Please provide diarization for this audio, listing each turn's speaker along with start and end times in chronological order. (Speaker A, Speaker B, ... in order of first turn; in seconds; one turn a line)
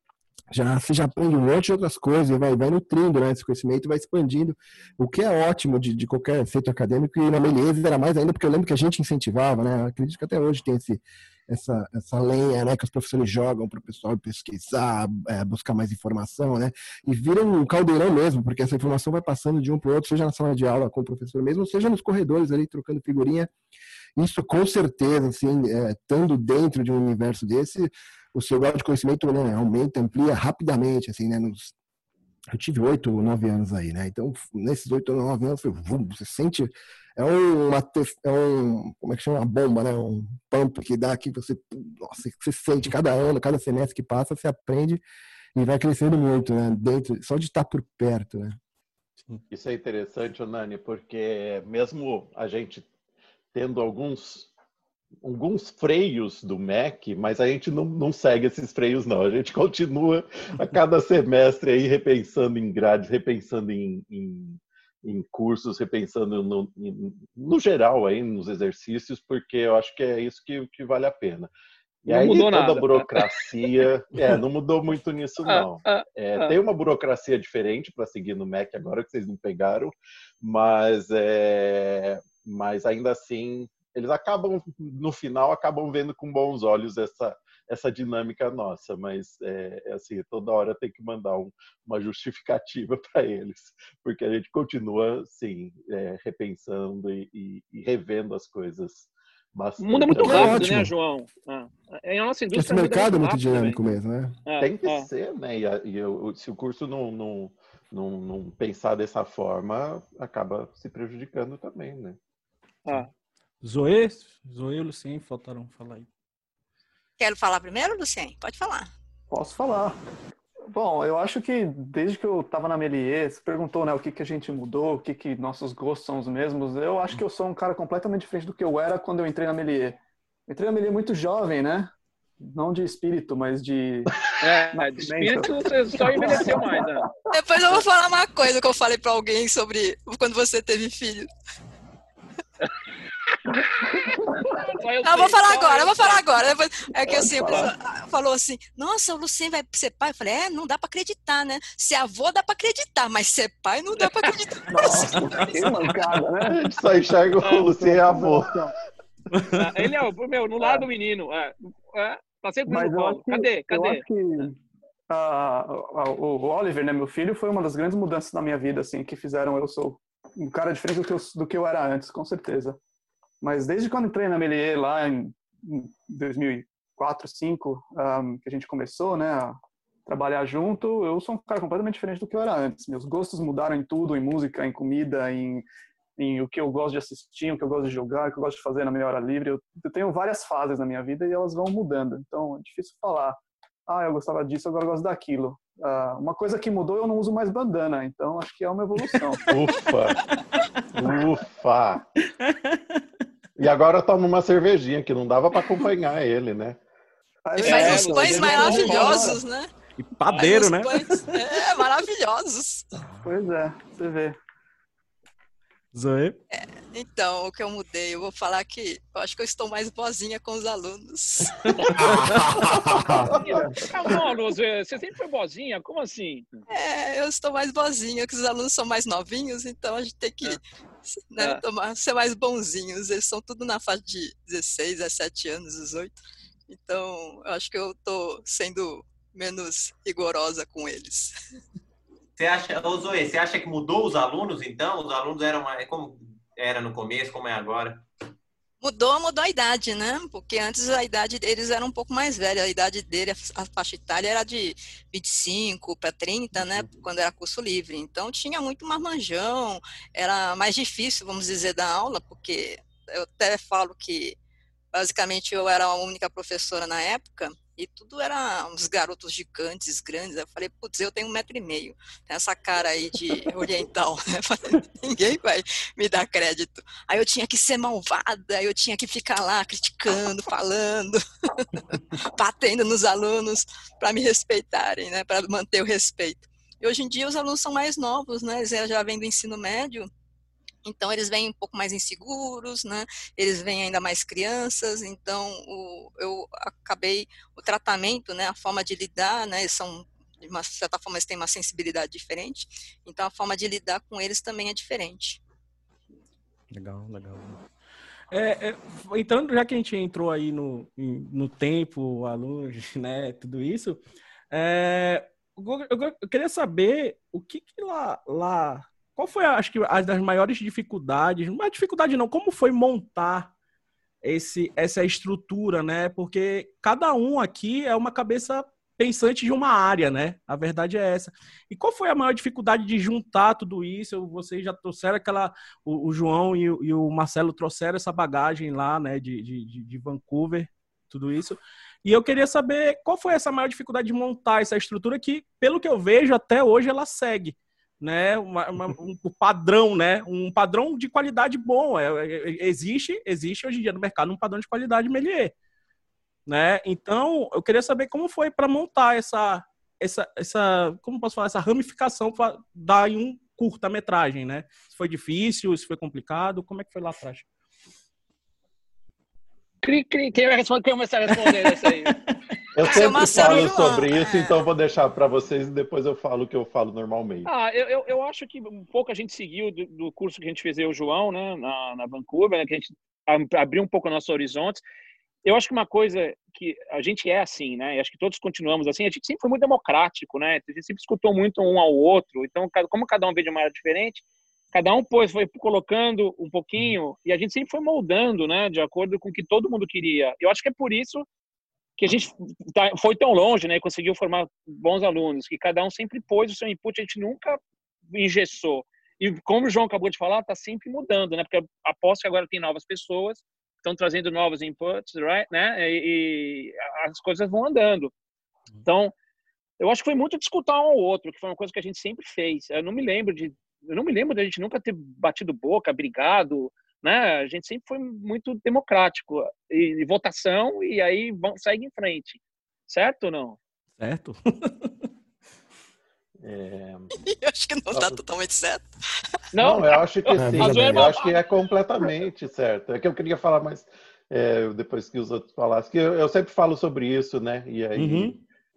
Speaker A: 0.5-23.5
Speaker A: 24.2-31.7
Speaker A: 32.5-45.0
Speaker A: 45.5-48.6
Speaker B: 49.5-52.9
Speaker B: 53.5-54.5
Speaker B: 55.2-71.5
Speaker B: 72.0-100.6
Speaker C: 72.1-73.2
Speaker C: 75.5-76.5
Speaker C: 99.8-103.8
Speaker A: 100.1-100.9
Speaker A: 102.5-104.3
Speaker C: 104.5-105.1
Speaker B: 104.6-112.2
Speaker D: 113.6-116.1
Speaker E: 117.2-118.9
Speaker F: 119.3-120.0
Speaker F: 120.7-134.1
Speaker C: 134.4-137.1
Speaker F: 134.7-137.1
Speaker E: 137.3-141.3
Speaker F: 143.7-144.6
Speaker C: 144.2-146.3
Speaker E: 145.0-155.8
Speaker C: 147.1-147.7
Speaker F: 147.1-147.7
Speaker C: 154.0-154.3
Speaker F: 154.7-156.6
Speaker B: 156.5-158.6
Speaker F: 157.4-158.7
Speaker D: 159.3-159.9
Speaker C: 159.5-164.0
Speaker F: 160.6-160.8
Speaker F: 162.7-164.6
Speaker F: 165.1-172.8
Speaker F: 173.4-199.4
Speaker B: 199.5-200.2
Speaker B: 200.9-202.0
Speaker D: 202.4-203.0
Speaker B: 203.6-206.8
Speaker F: 207.4-209.4
Speaker C: 207.6-209.4
Speaker E: 207.6-209.7
Speaker D: 210.0-211.8
Speaker E: 210.3-212.8
Speaker D: 213.0-213.3
Speaker F: 213.2-214.4
Speaker D: 215.9-216.4
Speaker E: 216.5-221.9
Speaker A: 221.9-223.3
Speaker C: 223.1-226.6
Speaker F: 223.3-224.2
Speaker E: 226.7-241.3
Speaker G: 242.4-248.0
Speaker E: 248.8-264.4
Speaker E: 264.9-290.1
Speaker E: 290.8-305.4
Speaker D: 306.7-307.6
Speaker D: 308.3-323.5
Speaker D: 324.2-355.5
Speaker D: 356.5-367.5
Speaker C: 369.8-372.1
Speaker D: 371.4-372.2
Speaker B: 372.7-377.5
Speaker E: 372.8-374.6
Speaker C: 372.9-373.6
Speaker C: 377.4-384.8
Speaker C: 385.4-401.2
Speaker C: 402.0-407.6
Speaker C: 408.1-418.1
Speaker C: 418.8-419.1
Speaker C: 419.8-433.6
Speaker D: 434.0-434.9
Speaker B: 436.4-437.2
Speaker E: 437.1-438.9
Speaker B: 437.9-438.2
Speaker C: 439.5-441.3
Speaker B: 439.6-448.3
Speaker A: 440.3-441.0
Speaker D: 447.9-448.4